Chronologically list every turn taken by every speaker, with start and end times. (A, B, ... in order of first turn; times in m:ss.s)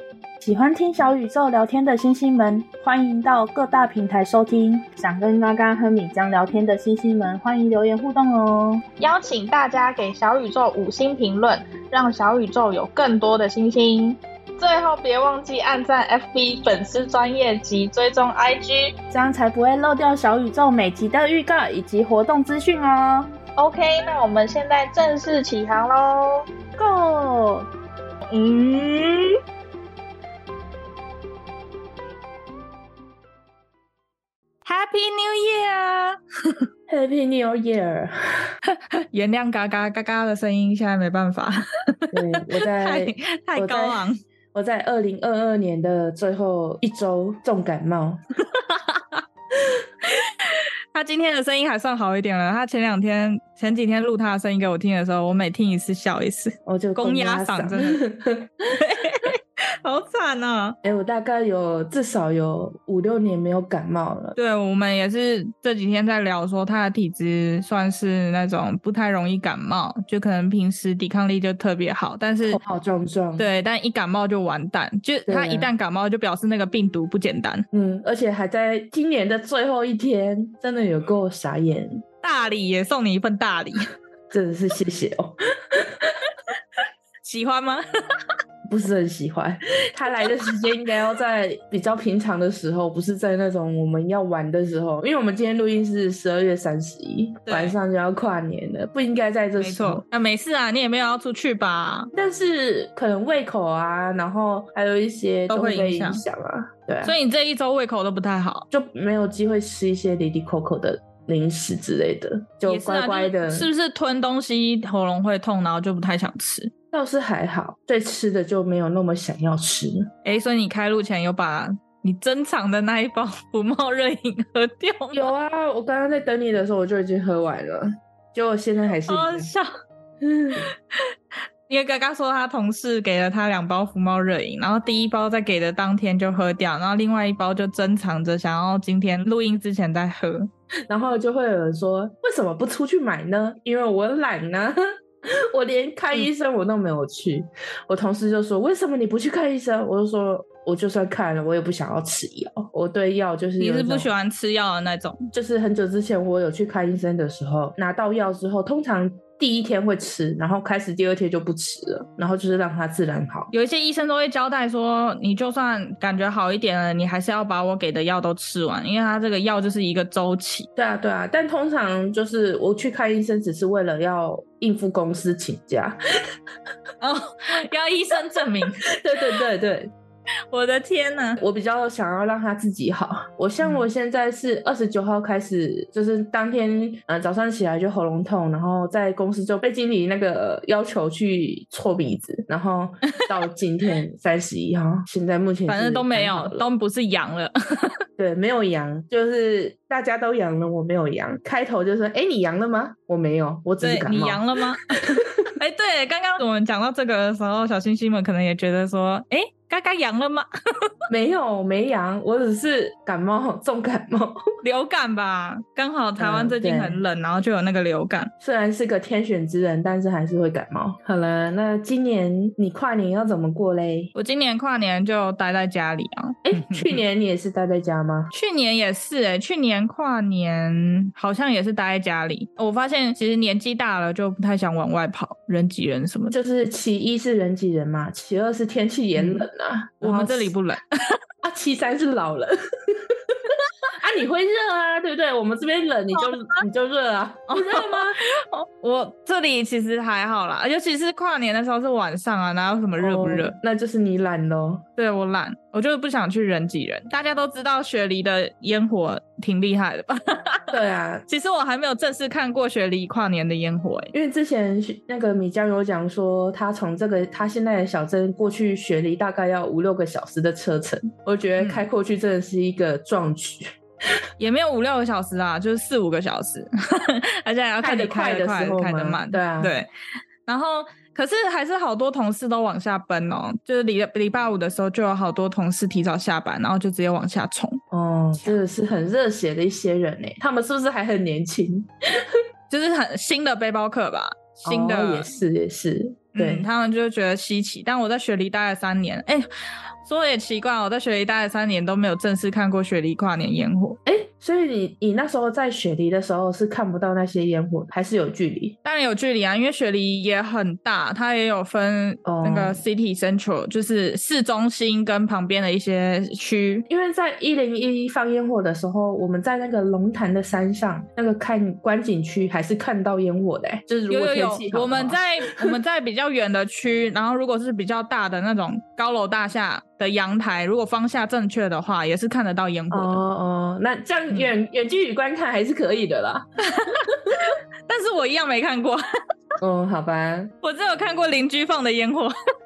0:00.4-0:08.8 A
0:09.0-0:19.0 B
0:19.1-0:23.3 A
0:23.6-0:26.5 B
0:26.8-0:27.6 A
0:34.6-0:36.6 C
0:36.9-0:38.5 A
0:39.1-0:44.2 C
0:42.1-0:48.2 A
0:48.4-0:49.2 C
0:50.0-0:58.0 C
0:56.7-0:58.8 A
0:58.7-1:00.8 C
1:00.8-1:04.4 A
1:04.4-1:12.6 C
1:12.4-1:13.5 A
1:13.4-1:17.6 C
1:15.3-1:15.7 A
1:17.7-1:22.0 A
1:22.2-1:23.8 C
1:24.3-1:26.2 A
1:27.2-1:27.8 C
1:28.7-1:40.0 A
1:37.5-1:37.8 C
1:39.6-1:42.1 C
1:42.1-1:47.2 A
1:45.5-1:46.2 C
1:47.0-1:48.7 C
1:48.7-1:53.7 A
1:52.7-1:56.7 C
1:56.9-2:00.1 A
2:00.2-2:05.3 C
2:05.1-2:09.5 A
2:09.1-2:09.7 C
2:10.2-2:10.7 A
2:11.7-2:20.5 C
2:20.9-2:24.8 A
2:25.5-2:34.1 A
2:33.6-2:35.2 C
2:35.3-2:43.5 A
2:43.5-2:50.7 C
2:50.8-2:56.0 A
2:57.0-2:58.8 C
2:58.9-2:59.9 A
3:00.5-3:01.4 C
3:01.4-3:16.6 A
3:03.6-3:03.9 C
3:15.7-3:17.9 C
3:18.2-3:24.4 A
3:23.8-3:30.5 C
3:25.1-3:25.5 A
3:31.1-3:34.4 A
3:34.6-3:38.3 C
3:36.2-3:37.0 A
3:38.4-3:44.1 A
3:44.1-3:47.0 C
3:46.5-3:48.3 A
3:48.3-3:56.4 C
3:56.3-4:00.5 A
3:59.2-3:59.5 C
4:00.0-4:01.2 C
4:01.4-4:08.2 A
4:06.2-4:06.5 C
4:07.5-4:13.6 C
4:13.0-4:14.8 A
4:15.0-4:20.8 C
4:20.7-4:21.2 A
4:21.3-4:24.1 C
4:24.1-4:33.7 A
4:31.6-4:31.8 C
4:34.4-4:39.9 C
4:37.8-4:39.7 A
4:40.5-4:47.8 C
4:47.9-4:52.3 A
4:52.7-4:55.3 C
4:54.6-4:56.7 A
4:56.4-4:59.5 C
5:00.0-5:04.0 C
5:04.1-5:08.8 A
5:08.8-5:16.9 C
5:12.2-5:12.8 A
5:16.9-5:25.7 A
5:24.1-5:33.2 C
5:32.9-5:37.4 A
5:36.6-5:39.0 C
5:39.6-5:40.5 A
5:40.6-5:42.3 C